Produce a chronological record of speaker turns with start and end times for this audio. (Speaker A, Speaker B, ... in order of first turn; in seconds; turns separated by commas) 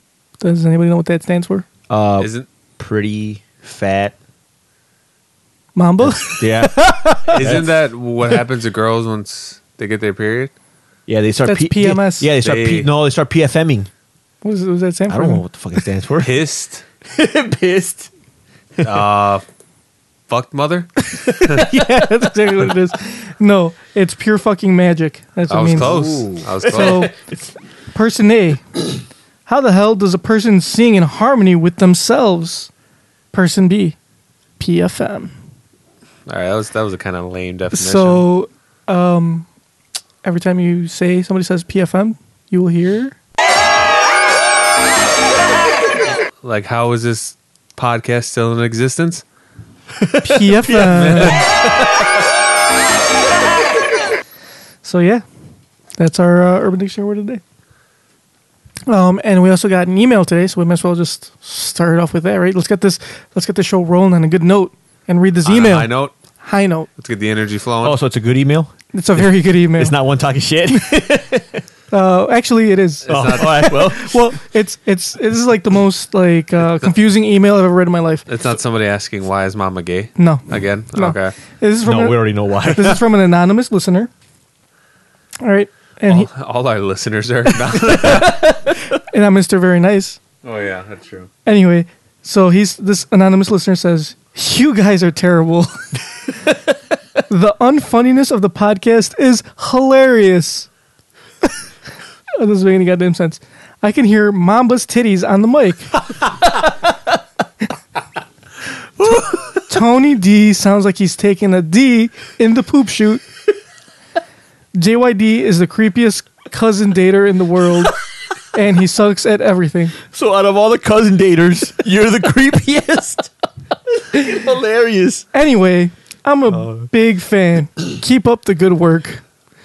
Speaker A: 0.4-1.6, Speaker B: 1.9-4.2, Speaker C: 2.2-2.5, Speaker A: 5.8-7.3, Speaker B: 6.0-7.8, Speaker C: 7.3-10.5, Speaker B: 11.1-13.9, Speaker A: 11.5-12.3, Speaker C: 12.4-12.9, Speaker A: 14.4-15.4, Speaker B: 15.1-16.4, Speaker C: 16.2-16.8, Speaker B: 17.1-18.1, Speaker B: 18.8-19.0, Speaker C: 18.8-19.4, Speaker C: 20.3-21.7, Speaker B: 21.3-21.6, Speaker A: 21.5-25.9, Speaker C: 25.5-27.1, Speaker B: 25.7-27.5, Speaker A: 26.6-27.1, Speaker A: 27.9-28.9, Speaker A: 29.5-32.7, Speaker A: 33.3-34.0, Speaker A: 34.6-35.3, Speaker C: 36.3-38.2, Speaker A: 37.7-39.5, Speaker A: 40.2-43.2, Speaker C: 46.4-49.2, Speaker B: 50.0-52.2, Speaker A: 50.2-51.4, Speaker C: 50.8-51.5, Speaker A: 54.8-55.2, Speaker A: 56.0-57.4, Speaker A: 58.9-65.9, Speaker C: 65.5-66.1, Speaker A: 66.4-66.9, Speaker C: 67.0-68.0, Speaker B: 67.8-68.7, Speaker A: 68.9-70.0, Speaker B: 69.7-71.6, Speaker A: 71.9-78.3, Speaker C: 73.1-73.7, Speaker B: 73.1-74.3, Speaker C: 78.3-81.4, Speaker A: 80.2-84.1, Speaker B: 81.8-83.0, Speaker A: 85.4-86.3, Speaker C: 86.1-88.5, Speaker A: 87.5-90.2, Speaker C: 90.4-91.3, Speaker A: 91.5-95.9, Speaker A: 97.3-100.7, Speaker A: 102.4-105.9, Speaker A: 109.7-113.2, Speaker A: 114.8-118.0, Speaker A: 118.5-120.0, Speaker B: 120.1-123.3, Speaker B: 123.9-125.3, Speaker A: 125.3-129.2, Speaker B: 126.5-126.9